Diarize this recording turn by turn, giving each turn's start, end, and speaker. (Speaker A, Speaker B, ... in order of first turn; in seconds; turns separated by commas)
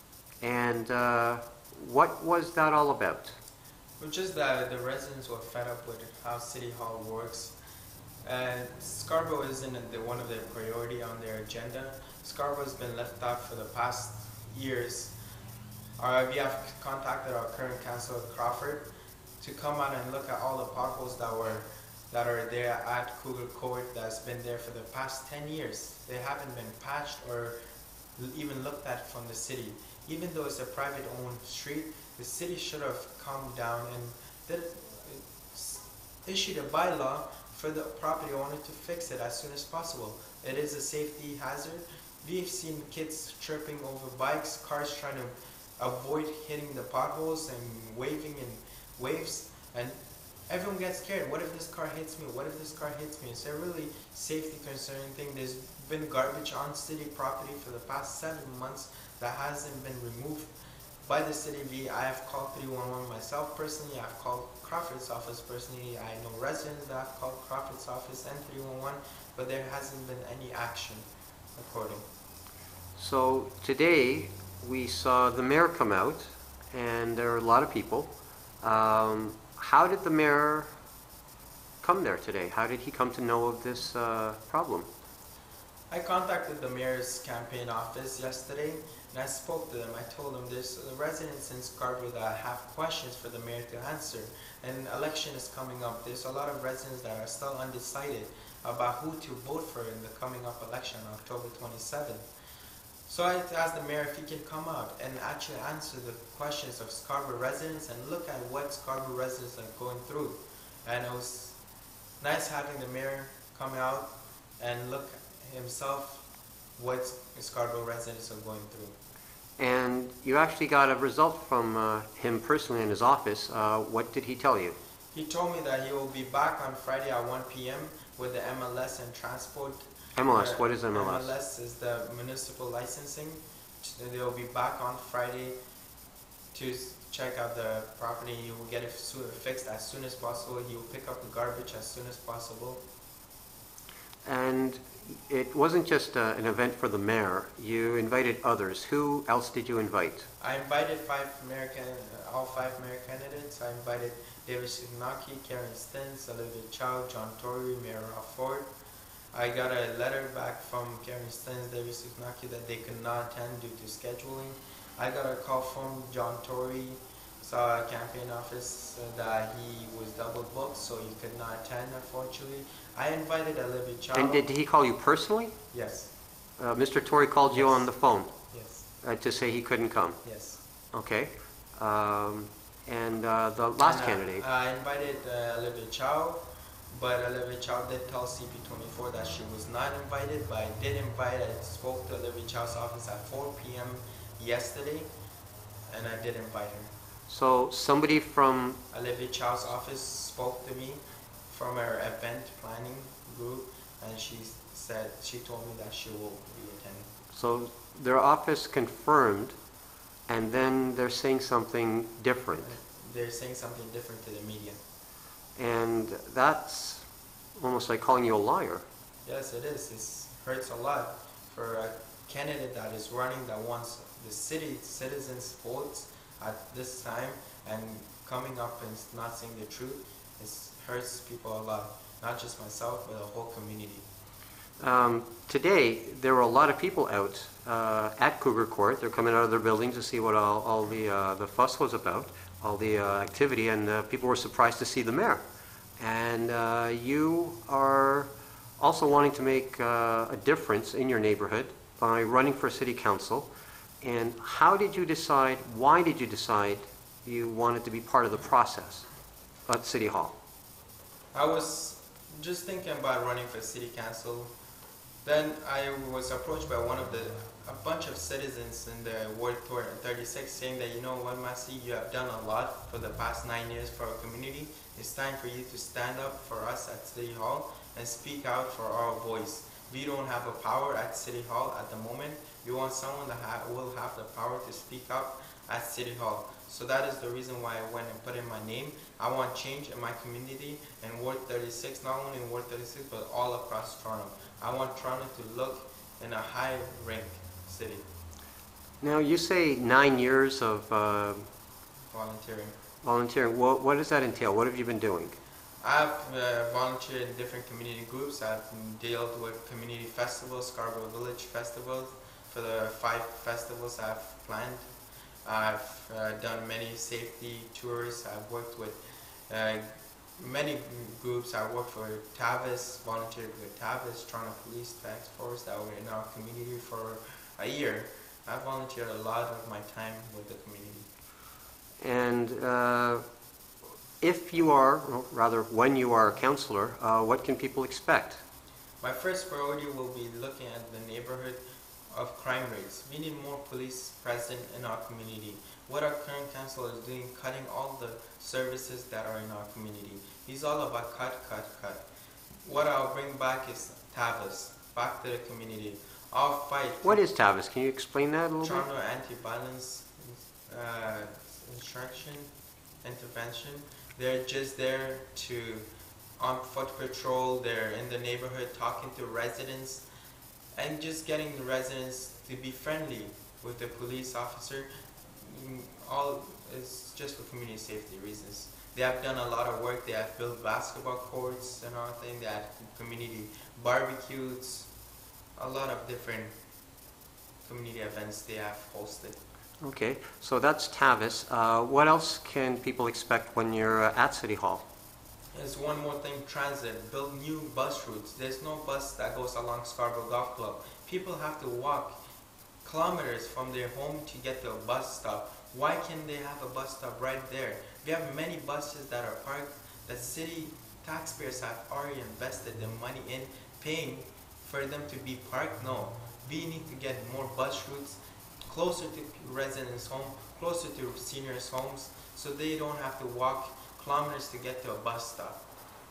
Speaker A: 0.4-3.3, Speaker B: 4.0-7.5, Speaker B: 8.2-15.1, Speaker B: 16.0-27.6, Speaker B: 28.2-50.0, Speaker B: 50.5-60.5, Speaker B: 61.0-71.0, Speaker B: 71.6-72.0, Speaker A: 73.0-80.7, Speaker A: 81.8-84.9, Speaker B: 85.9-102.2, Speaker B: 103.1-111.6, Speaker B: 112.2-116.2, Speaker B: 116.8-119.0, Speaker A: 119.6-124.8, Speaker B: 125.1-135.6, Speaker A: 130.2-131.3, Speaker B: 136.5-142.8, Speaker A: 144.2-150.3, Speaker B: 150.4-158.7, Speaker B: 159.3-174.5, Speaker A: 174.1-175.5, Speaker B: 175.7-176.1, Speaker A: 176.6-178.3, Speaker B: 177.5-177.9, Speaker B: 178.5-178.9, Speaker A: 179.0-180.2, Speaker B: 180.2-180.6, Speaker A: 180.9-184.4, Speaker B: 183.8-195.1, Speaker B: 195.9-196.9, Speaker A: 197.3-198.8, Speaker B: 198.9-207.1, Speaker A: 207.3-209.6, Speaker A: 210.3-212.8, Speaker B: 212.6-214.8, Speaker A: 215.6-218.8, Speaker B: 219.2-234.1, Speaker A: 234.8-245.4, Speaker A: 246.0-253.5, Speaker A: 254.0-259.1, Speaker A: 259.7-260.4, Speaker B: 261.3-264.5, Speaker B: 265.2-298.1, Speaker A: 299.0-301.5, Speaker B: 302.1-302.8, Speaker A: 303.0-305.4, Speaker B: 305.8-314.8, Speaker B: 315.4-331.1, Speaker A: 332.0-333.2, Speaker A: 334.2-338.4, Speaker B: 339.0-352.1, Speaker B: 352.6-357.2, Speaker A: 357.0-358.8, Speaker B: 358.6-362.5, Speaker B: 363.0-370.1, Speaker B: 370.7-374.9, Speaker B: 375.4-384.9, Speaker B: 385.6-386.5, Speaker B: 387.6-389.4, Speaker A: 389.8-394.8, Speaker B: 395.5-402.2, Speaker B: 402.8-425.6